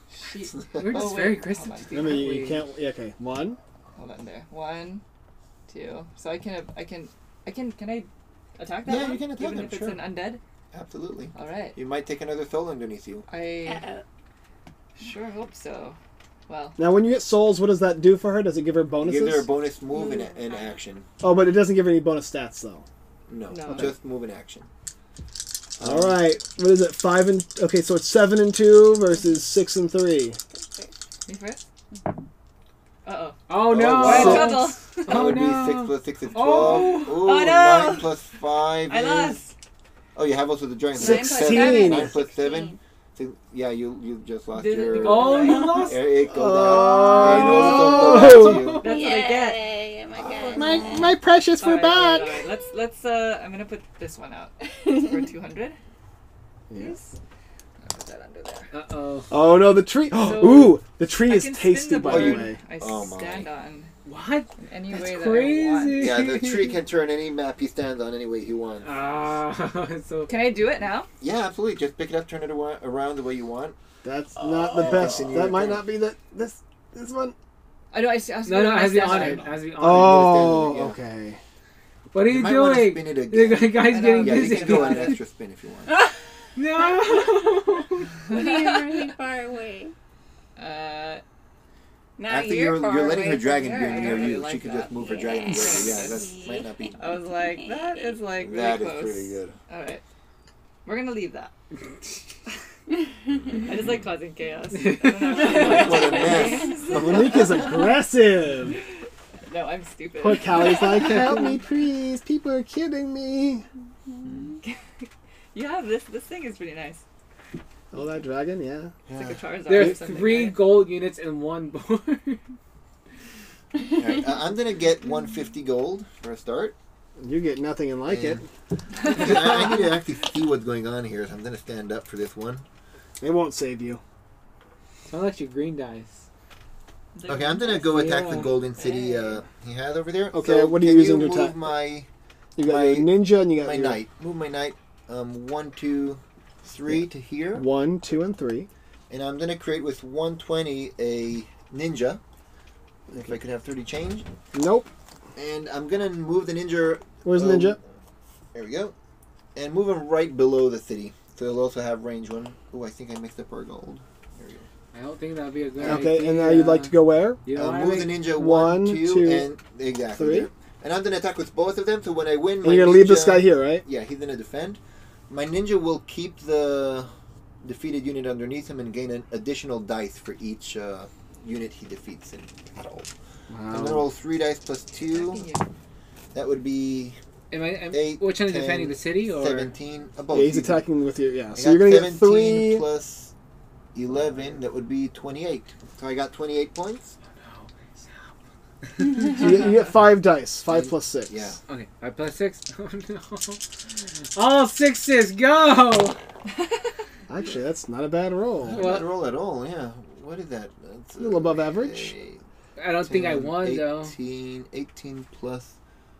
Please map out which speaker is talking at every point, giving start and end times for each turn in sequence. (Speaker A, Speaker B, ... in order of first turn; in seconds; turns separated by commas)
Speaker A: 0.2-2.3, Speaker B: 0.7-2.7, Speaker C: 1.9-3.6, Speaker A: 4.0-5.0, Speaker A: 5.7-10.4, Speaker D: 8.8-10.1, Speaker D: 10.7-13.2, Speaker A: 11.3-11.8, Speaker A: 13.3-13.8, Speaker E: 13.7-14.0, Speaker A: 14.9-16.8, Speaker C: 16.8-19.5, Speaker D: 19.0-21.1, Speaker E: 19.9-20.7, Speaker C: 21.2-22.9, Speaker D: 23.3-24.7, Speaker A: 23.5-23.9, Speaker D: 25.8-26.2, Speaker C: 25.8-30.4, Speaker E: 30.5-30.9, Speaker A: 31.3-31.6, Speaker A: 33.0-33.4, Speaker B: 33.5-37.2, Speaker D: 33.7-39.4, Speaker A: 34.0-34.9, Speaker C: 34.0-34.5, Speaker A: 36.6-38.2, Speaker A: 38.8-39.5, Speaker D: 40.1-48.9, Speaker E: 40.9-42.8, Speaker C: 41.0-42.1, Speaker A: 44.5-45.8, Speaker B: 45.0-46.0, Speaker C: 46.2-48.8, Speaker E: 46.7-48.0, Speaker B: 47.3-48.9, Speaker A: 48.8-50.4, Speaker E: 48.8-51.1, Speaker D: 50.1-50.7, Speaker C: 50.5-52.4, Speaker A: 51.6-55.8, Speaker E: 54.7-55.1, Speaker C: 56.7-57.0, Speaker A: 56.7-57.2, Speaker A: 57.8-58.7, Speaker B: 58.7-59.3, Speaker C: 59.3-62.6, Speaker A: 60.1-63.9, Speaker D: 62.0-63.5, Speaker B: 64.0-66.8, Speaker A: 64.6-66.2, Speaker D: 65.9-68.9, Speaker B: 68.8-70.3, Speaker A: 70.3-71.1, Speaker D: 71.2-73.8, Speaker C: 74.0-77.3, Speaker D: 74.3-75.9, Speaker A: 77.9-79.6, Speaker B: 78.5-80.6, Speaker C: 79.1-81.4, Speaker D: 79.8-81.0, Speaker B: 82.1-85.2, Speaker D: 82.2-85.9, Speaker A: 83.8-85.2, Speaker E: 85.9-86.1, Speaker B: 86.5-88.1, Speaker E: 86.8-87.7, Speaker E: 88.3-89.9, Speaker A: 88.3-88.8, Speaker A: 90.5-91.2, Speaker E: 92.2-94.4, Speaker D: 92.3-97.0, Speaker A: 93.7-96.3, Speaker E: 95.0-98.2, Speaker A: 97.0-100.0, Speaker D: 98.4-99.5, Speaker A: 100.8-101.5, Speaker D: 103.3-104.0, Speaker A: 103.6-107.7, Speaker B: 104.7-105.9, Speaker E: 105.4-106.8, Speaker D: 105.4-107.7, Speaker C: 106.9-108.8, Speaker A: 108.8-111.5, Speaker C: 110.2-113.7, Speaker E: 110.8-111.5, Speaker E: 114.1-114.5, Speaker D: 114.2-114.5, Speaker A: 114.6-117.0, Speaker C: 117.9-118.9, Speaker D: 119.0-119.4, Speaker A: 119.1-120.6, Speaker B: 119.7-122.4, Speaker D: 123.9-126.8, Speaker C: 127.2-128.5, Speaker D: 128.1-128.4, Speaker A: 129.0-129.5, Speaker D: 129.0-132.7, Speaker C: 133.2-134.0, Speaker B: 135.1-136.2, Speaker A: 137.1-139.4, Speaker D: 137.2-142.1, Speaker B: 137.6-138.6, Speaker C: 140.3-141.6, Speaker C: 142.6-144.0, Speaker D: 142.6-147.7, Speaker C: 147.5-148.7, Speaker D: 149.1-152.2, Speaker D: 153.1-154.3, Speaker C: 153.1-153.4, Speaker C: 154.5-154.9, Speaker D: 155.3-157.9, Speaker C: 157.2-157.8, Speaker D: 158.5-158.9, Speaker D: 159.5-164.7, Speaker B: 164.9-168.2, Speaker D: 165.8-166.2, Speaker C: 165.8-167.4, Speaker D: 167.5-183.1, Speaker C: 168.3-169.5, Speaker C: 170.1-170.5, Speaker C: 172.6-173.8, Speaker C: 183.5-184.1, Speaker D: 183.7-185.5, Speaker A: 185.1-185.7, Speaker D: 186.3-187.2, Speaker B: 187.5-189.7, Speaker D: 187.9-190.8, Speaker C: 190.3-192.8, Speaker D: 191.5-193.3, Speaker D: 193.9-197.2, Speaker B: 197.3-199.4, Speaker C: 199.1-201.4, Speaker D: 200.7-201.6, Speaker B: 201.7-203.6, Speaker B: 204.3-206.2, Speaker A: 206.5-206.9, Speaker C: 207.3-208.9, Speaker D: 208.6-212.4, Speaker B: 208.7-209.1, Speaker C: 211.2-212.1, Speaker B: 212.8-214.2, Speaker D: 213.0-215.8